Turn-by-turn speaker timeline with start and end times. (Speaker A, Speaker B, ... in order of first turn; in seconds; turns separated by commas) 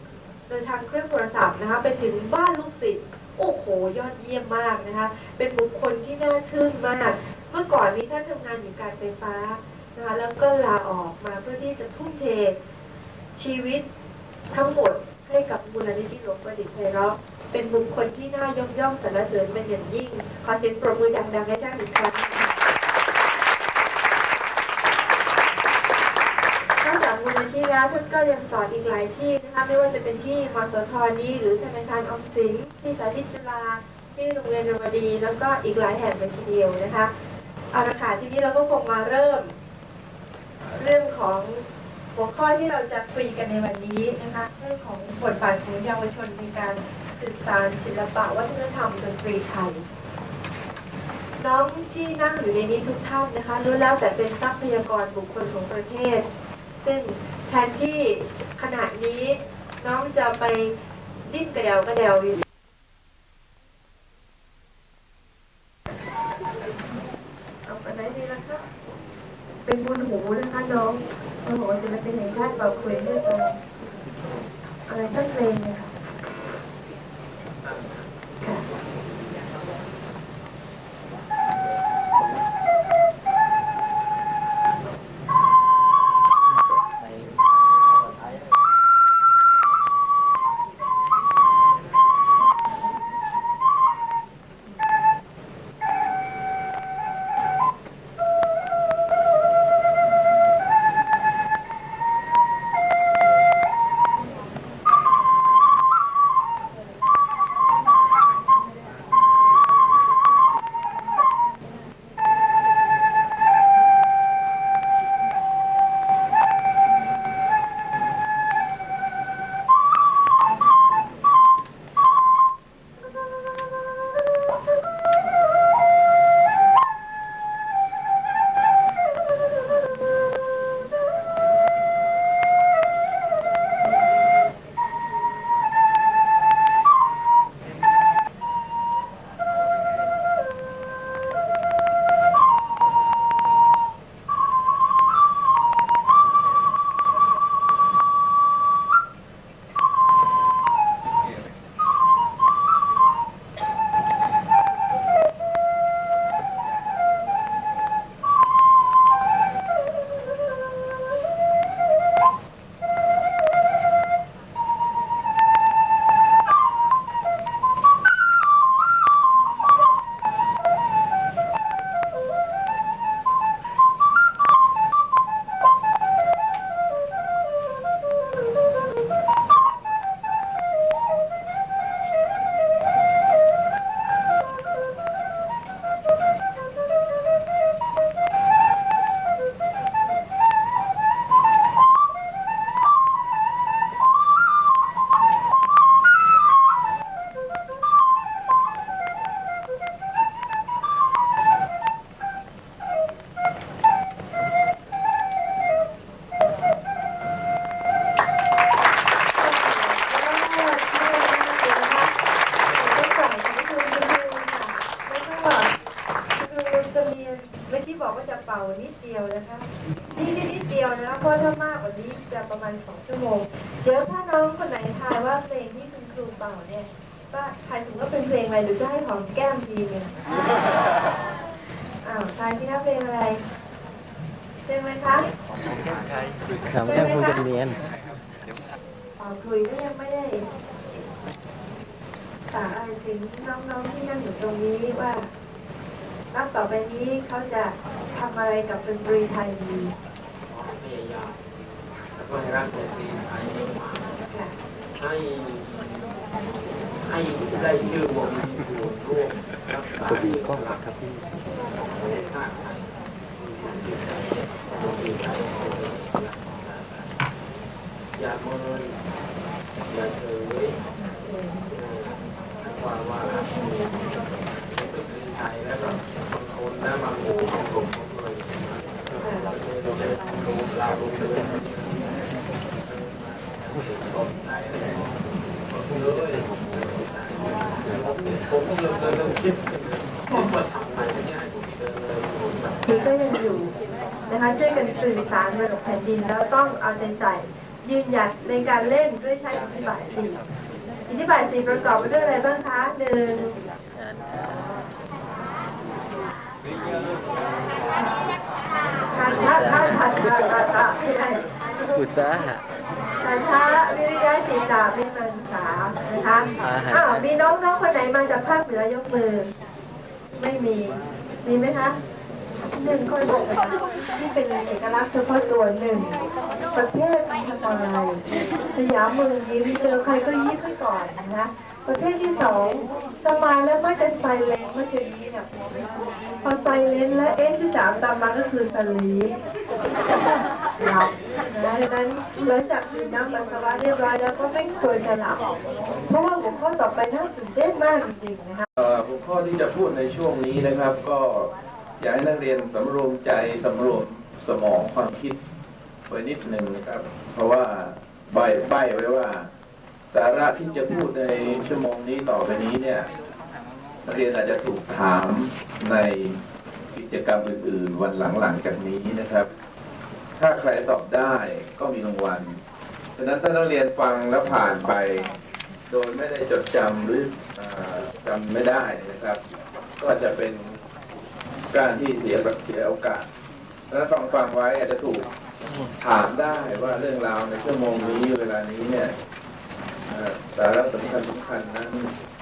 Speaker A: 0.5-12.6, Speaker A: 13.3-13.9, Speaker A: 14.5-22.5, Speaker A: 26.8-37.1, Speaker A: 37.7-39.5, Speaker A: 40.8-49.9, Speaker A: 51.4-56.3, Speaker A: 56.8-62.4, Speaker A: 67.7-68.6, Speaker A: 69.7-73.6, Speaker A: 74.9-75.9, Speaker B: 77.6-78.1, Speaker A: 209.3-212.1, Speaker A: 212.9-215.7, Speaker A: 216.4-230.3, Speaker A: 232.0-233.4, Speaker A: 234.7-235.3, Speaker C: 236.7-237.8, Speaker A: 236.8-237.5, Speaker A: 239.2-240.5, Speaker A: 242.5-245.3, Speaker A: 246.3-249.9, Speaker B: 250.5-251.4, Speaker B: 252.2-254.1, Speaker A: 254.3-254.5, Speaker B: 255.0-256.0, Speaker B: 257.0-260.8, Speaker B: 261.9-262.9, Speaker B: 264.7-267.1, Speaker B: 268.2-269.0, Speaker B: 269.9-270.7, Speaker A: 271.0-271.7, Speaker B: 271.8-273.9, Speaker B: 274.7-278.9, Speaker A: 279.2-279.5, Speaker B: 279.5-282.2, Speaker B: 282.8-285.1, Speaker B: 285.7-289.8, Speaker B: 290.3-292.8, Speaker A: 292.9-293.7, Speaker A: 294.3-300.4, Speaker A: 301.1-303.5, Speaker A: 309.1-311.4, Speaker C: 309.3-310.1, Speaker C: 311.9-312.6, Speaker A: 313.2-319.5, Speaker C: 316.7-317.3, Speaker A: 320.4-322.0, Speaker A: 322.7-326.2, Speaker A: 326.7-328.2, Speaker A: 328.7-335.5, Speaker A: 336.4-339.4, Speaker A: 340.8-345.5, Speaker A: 346.1-348.7, Speaker D: 348.8-355.4, Speaker D: 356.1-359.5, Speaker D: 360.1-363.1, Speaker D: 364.1-366.4, Speaker D: 366.9-369.5, Speaker D: 370.4-372.6, Speaker D: 373.2-375.3, Speaker D: 375.9-379.4, Speaker D: 380.0-380.8, Speaker D: 381.7-383.3, Speaker D: 383.9-385.3, Speaker D: 386.0-389.1, Speaker D: 390.1-392.1